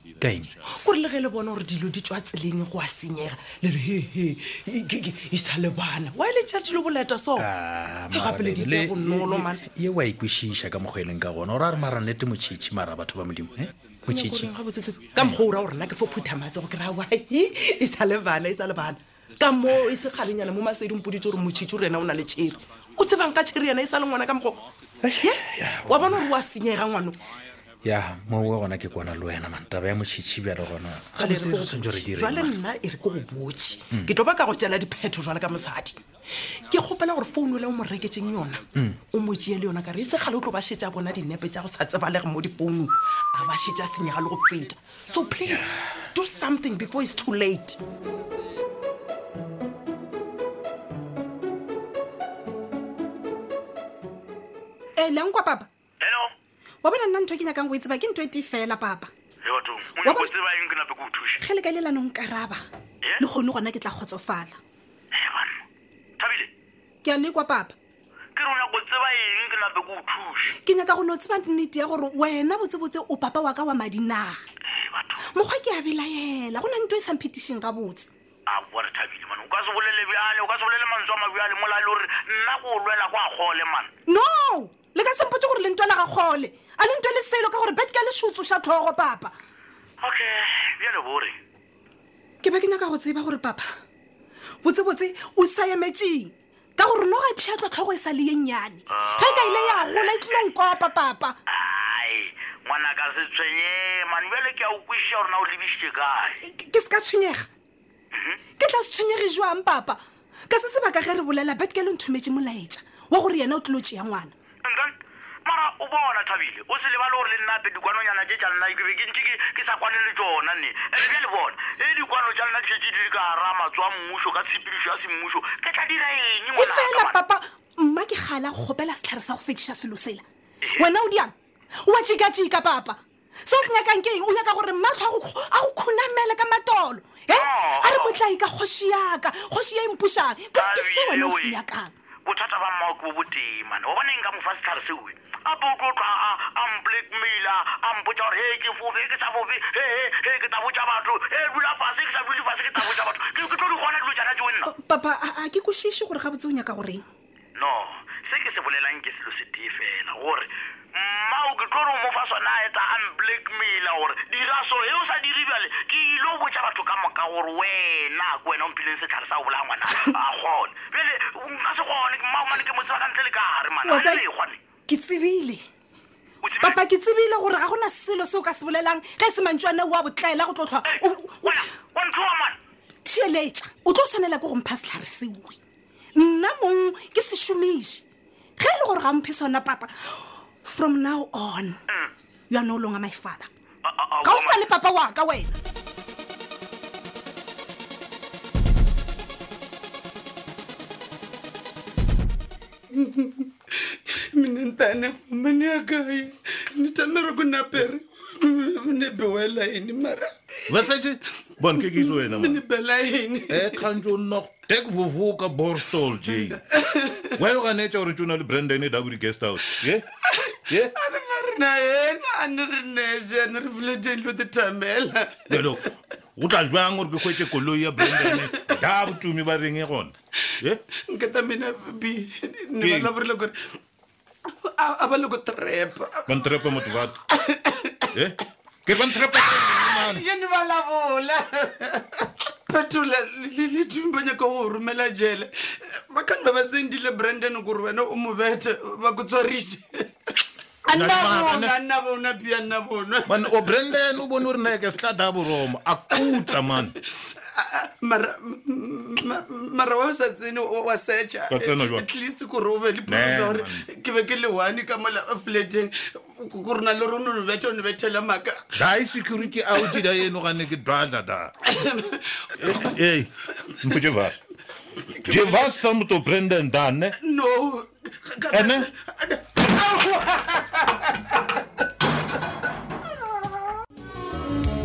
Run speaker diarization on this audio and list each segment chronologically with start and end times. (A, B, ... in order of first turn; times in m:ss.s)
0:00.2-0:00.5 A
0:00.7-0:07.5 B
0:07.4-0:14.5 A
0:08.1-0:09.6 B
0:14.1-0:24.6 B
0:25.0-0:26.2 A
0:25.2-0:27.2 B
0:27.8-0:32.6 A
0:31.2-0:36.0 B
0:36.7-0:47.8 B
0:55.0-0:55.7 C
0:56.0-0:56.3 D
0:56.8-0:59.1 C
0:59.4-1:01.4 D
1:00.0-1:00.3 C
1:01.4-1:02.6 C
1:03.2-1:04.6 C
1:05.1-1:05.5 D
1:06.2-1:06.5 D
1:07.0-1:07.7 C
1:08.4-1:10.5 D
1:10.5-1:14.4 C
1:14.7-1:15.2 D
1:15.2-1:18.1 C
1:18.5-1:23.9 D
1:24.1-1:29.3 C
1:30.0-1:31.4 D
1:32.4-1:33.7 C
1:34.6-1:41.4 C
1:38.9-1:40.3 D
1:41.5-1:46.4 D
1:46.4-1:47.5 C
1:48.1-1:48.4 D
1:48.6-1:50.0 C
1:50.5-1:54.3 C
1:54.6-1:54.9 D
1:55.4-2:07.2 D
2:06.5-2:10.2 C
2:10.6-2:10.9 D
2:10.8-2:21.9 C
2:17.3-2:18.2 D
2:20.5-2:21.6 D
2:22.2-2:34.7 D
2:34.6-2:37.0 C
2:37.6-2:54.6 D
2:53.8-2:54.2 C
2:54.9-2:55.6 C
2:56.4-2:56.8 D
2:56.6-3:01.6 C
3:00.9-3:02.6 D
3:03.0-3:05.6 C
3:06.2-3:08.0 C
3:08.6-3:11.8 C
3:12.5-3:13.5 C
3:13.8-3:14.6 D
3:14.2-3:15.5 C
3:22.9-3:23.8 B
3:24.3-3:30.3 B
3:30.7-3:32.6 E
3:31.8-3:33.8 B
3:33.5-3:40.0 E
3:40.7-3:40.9 E
3:40.9-3:45.7 B
3:45.5-3:45.8 E
3:46.4-3:50.8 E
3:48.0-3:48.4 B
3:51.1-3:53.5 B
3:52.8-3:53.1 E
3:54.6-3:58.0 B
3:56.3-3:57.2 E
3:58.1-4:00.2 E
3:59.0-4:09.9 B
4:10.9-4:11.8 E
4:10.9-4:13.2 B
4:13.2-4:16.9 E
4:18.9-4:19.2 B
4:20.4-4:21.1 B
4:21.4-4:22.1 E
4:22.0-4:22.6 B
4:23.0-4:23.8 E
4:24.1-4:24.5 B
4:25.0-4:25.8 B
4:27.0-4:28.5 B
4:28.7-4:31.5 E
4:31.9-4:32.3 B
4:32.6-4:33.3 E
4:33.8-4:34.4 E
4:35.2-4:37.2 E
4:35.2-4:35.7 B
4:37.2-4:40.6 B
4:38.5-4:38.9 E